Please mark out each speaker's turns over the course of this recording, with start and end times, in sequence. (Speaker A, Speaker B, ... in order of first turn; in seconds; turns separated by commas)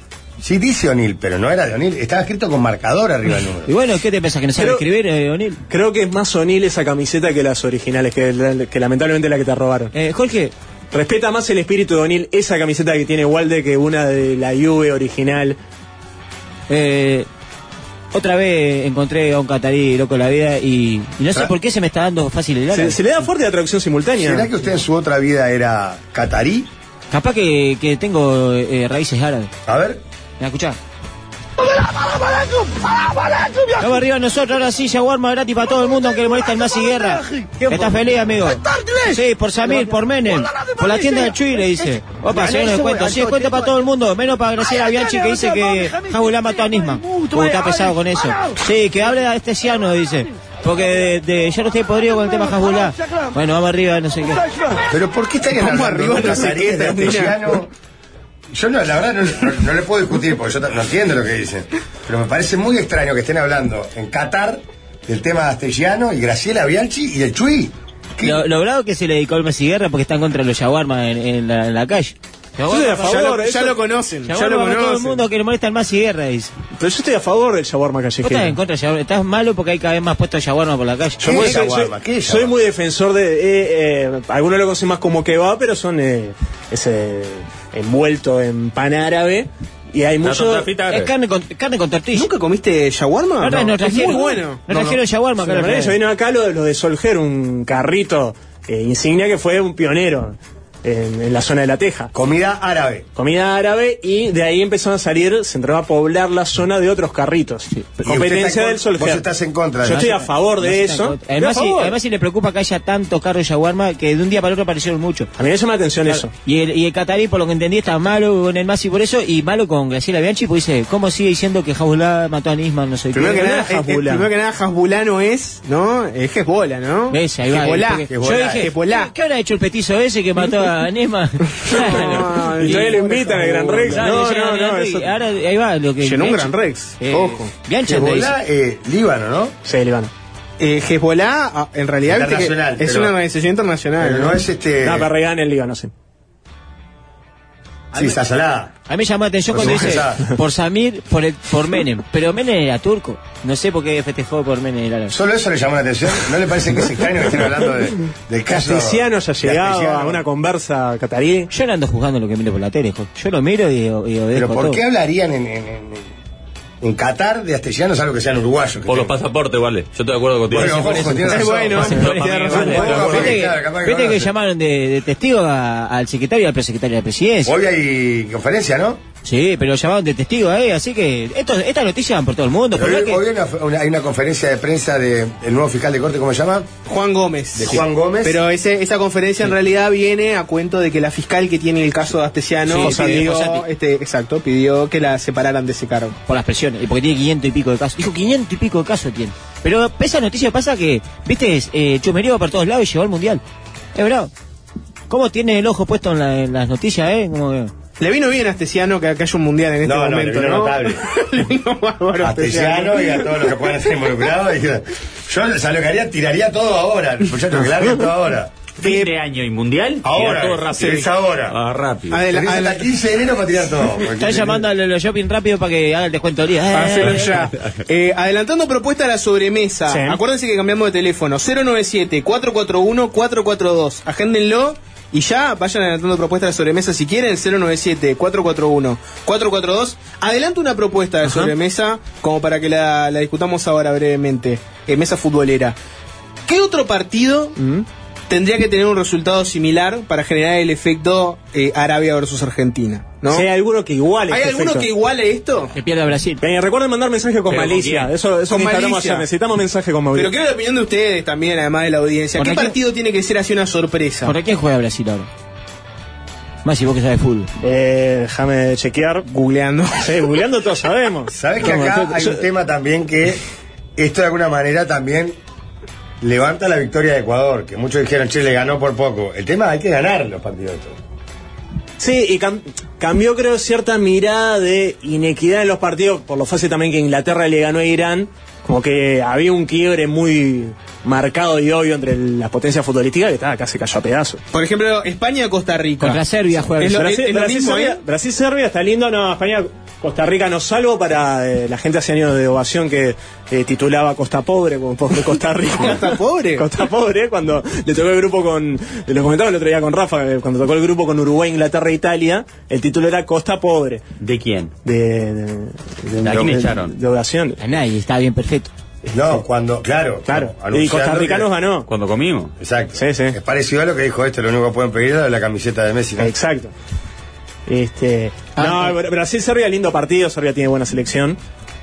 Speaker A: 0.4-3.7, Speaker B: 3.6-5.6, Speaker C: 4.6-4.8, Speaker C: 5.7-9.9, Speaker B: 9.9-10.5, Speaker C: 10.9-15.6, Speaker B: 16.7-17.3, Speaker B: 18.1-23.2, Speaker C: 22.7-24.5, Speaker A: 24.2-26.7, Speaker B: 27.1-29.5, Speaker A: 29.6-30.0, Speaker B: 30.4-30.8, Speaker B: 33.7-54.5, Speaker A: 54.9-57.7, Speaker D: 55.5-57.5, Speaker A: 58.5-68.4, Speaker B: 68.2-73.3, Speaker C: 72.7-73.8, Speaker D: 72.9-75.2, Speaker B: 74.3-76.5, Speaker C: 76.8-78.6, Speaker B: 78.2-81.7, Speaker A: 81.2-82.5, Speaker C: 81.2-90.7, Speaker E: 90.2-91.1, Speaker B: 90.9-92.3, Speaker D: 92.1-94.6, Speaker B: 93.4-96.0, Speaker C: 95.4-102.1, Speaker A: 102.1-103.0, Speaker C: 103.2-109.2, Speaker A: 108.0-110.1, Speaker C: 109.8-112.0, Speaker B: 109.9-115.3, Speaker C: 115.3-116.3, Speaker B: 116.1-123.6, Speaker D: 123.1-129.1, Speaker C: 123.1-124.3, Speaker B: 127.1-133.0, Speaker A: 128.1-128.7, Speaker D: 131.7-134.1, Speaker C: 131.7-135.1, Speaker B: 133.8-138.3, Speaker D: 136.0-137.5, Speaker A: 137.8-139.5, Speaker C: 139.6-140.1, Speaker D: 140.6-144.4, Speaker A: 142.0-143.1, Speaker A: 144.0-145.1, Speaker C: 144.8-145.9, Speaker A: 147.9-148.7, Speaker B: 148.9-155.1, Speaker A: 149.5-150.2, Speaker C: 149.6-149.9, Speaker A: 155.1-160.2, Speaker C: 158.5-161.5, Speaker B: 161.5-164.8, Speaker A: 164.3-166.1, Speaker A: 166.8-169.1, Speaker E: 168.9-173.4, Speaker A: 170.5-174.3, Speaker B: 170.7-177.6, Speaker D: 171.3-173.3, Speaker A: 177.4-179.0, Speaker B: 179.2-183.2, Speaker A: 182.7-186.7, Speaker D: 186.8-196.2, Speaker A: 187.5-188.4, Speaker C: 192.7-193.3, Speaker B: 192.7-193.6, Speaker B: 196.3-203.4, Speaker B: 203.9-204.3, Speaker B: 205.1-207.7, Speaker D: 208.0-213.3, Speaker A: 209.8-211.0, Speaker A: 212.2-218.5, Speaker E: 218.8-222.2, Speaker D: 218.8-219.1, Speaker A: 220.0-221.6, Speaker D: 222.1-222.8, Speaker A: 222.3-224.6, Speaker B: 224.1-227.4, Speaker D: 226.7-245.8, Speaker C: 229.9-230.2, Speaker C: 241.2-241.5, Speaker D: 246.4-247.6, Speaker C: 247.6-247.8, Speaker D: 248.3-253.5, Speaker C: 253.3-254.9, Speaker D: 254.3-255.7, Speaker B: 255.7-256.4, Speaker C: 256.4-260.3, Speaker E: 257.5-258.1, Speaker D: 258.5-259.2, Speaker D: 260.1-264.3, Speaker B: 262.3-262.8, Speaker B: 264.2-265.3, Speaker B: 266.6-267.5, Speaker C: 267.6-269.2, Speaker D: 269.3-270.1, Speaker C: 270.0-272.4, Speaker A: 271.3-273.4, Speaker A: 274.0-275.3, Speaker A: 276.2-281.0, Speaker C: 282.0-294.4, Speaker D: 294.5-296.2, Speaker B: 296.0-297.1, Speaker D: 296.8-298.0, Speaker C: 296.9-314.0, Speaker D: 305.7-306.6, Speaker E: 314.2-314.7, Speaker C: 314.8-317.6, Speaker E: 316.2-316.9, Speaker B: 317.6-318.7, Speaker A: 319.1-321.5, Speaker C: 320.3-321.9, Speaker E: 321.9-322.5, Speaker A: 322.6-326.3, Speaker C: 323.0-323.4, Speaker C: 326.2-326.7, Speaker C: 327.7-331.4, Speaker B: 328.6-328.9